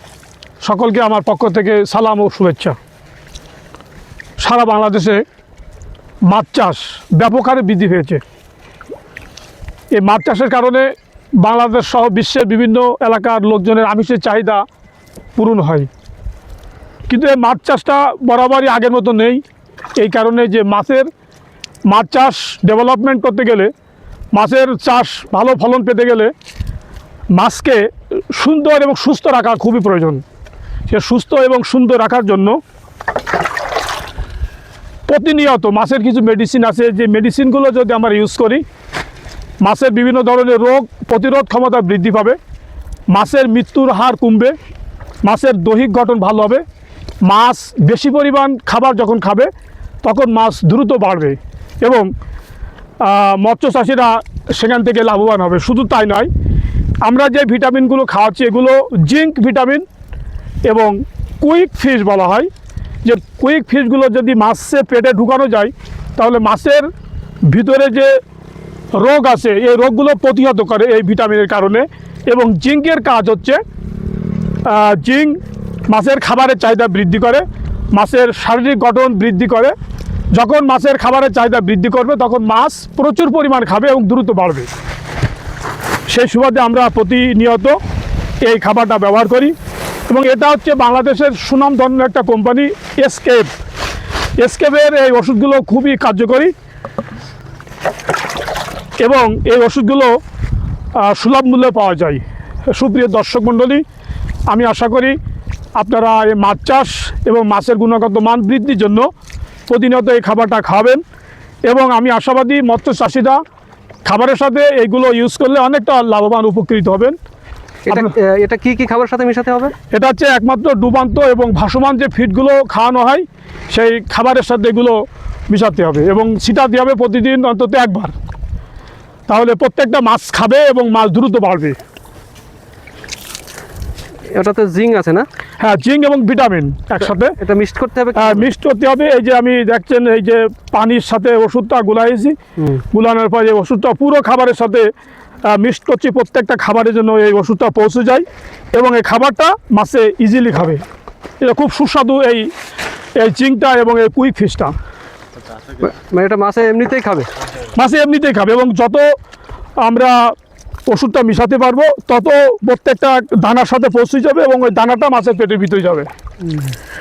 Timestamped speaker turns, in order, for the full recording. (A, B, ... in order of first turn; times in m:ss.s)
0:00.6-0:02.8 A
0:04.4-0:05.2 A
0:06.3-0:08.2 A
0:10.0-0:14.6 A
0:15.4-0:15.9 A
0:17.1-0:19.4 A
0:20.0-0:21.1 A
0:21.9-0:23.7 A
0:24.4-0:26.3 A
0:27.3-0:30.2 A
0:30.9-0:32.6 A
0:35.1-0:38.6 A
0:39.6-0:42.4 A
0:43.1-0:44.5 A
0:45.2-0:46.6 A
0:47.2-0:49.5 A
0:50.0-0:52.1 A
0:53.0-0:56.3 A
0:57.0-0:59.8 A
1:00.7-1:02.5 A
1:03.0-1:06.9 A
1:07.5-1:08.1 A
1:09.0-1:13.6 A
1:14.7-1:15.4 A
1:15.9-1:17.4 A
1:18.0-1:19.7 A
1:20.4-1:24.7 A
1:26.1-1:27.8 A
1:28.4-1:29.5 A
1:30.1-1:33.5 A
1:34.4-1:36.5 A
1:39.0-1:40.1 A
1:41.0-1:43.8 A
1:44.5-1:45.2 A
1:45.8-1:49.1 A
1:49.7-1:51.0 A
1:51.7-1:53.4 A
1:54.1-1:57.2 A
1:57.9-1:59.7 B
1:59.9-2:05.0 A
2:05.5-2:08.1 A
2:09.3-2:11.8 A
2:14.3-2:15.3 B
2:15.6-2:17.4 A
2:17.0-2:18.5 B
2:18.2-2:22.4 A
2:22.9-2:24.9 A
2:25.5-2:30.8 A
2:31.4-2:32.5 A
2:33.2-2:34.7 A
2:35.8-2:37.3 B
2:37.8-2:39.0 A
2:39.8-2:40.3 A
2:40.9-2:46.1 A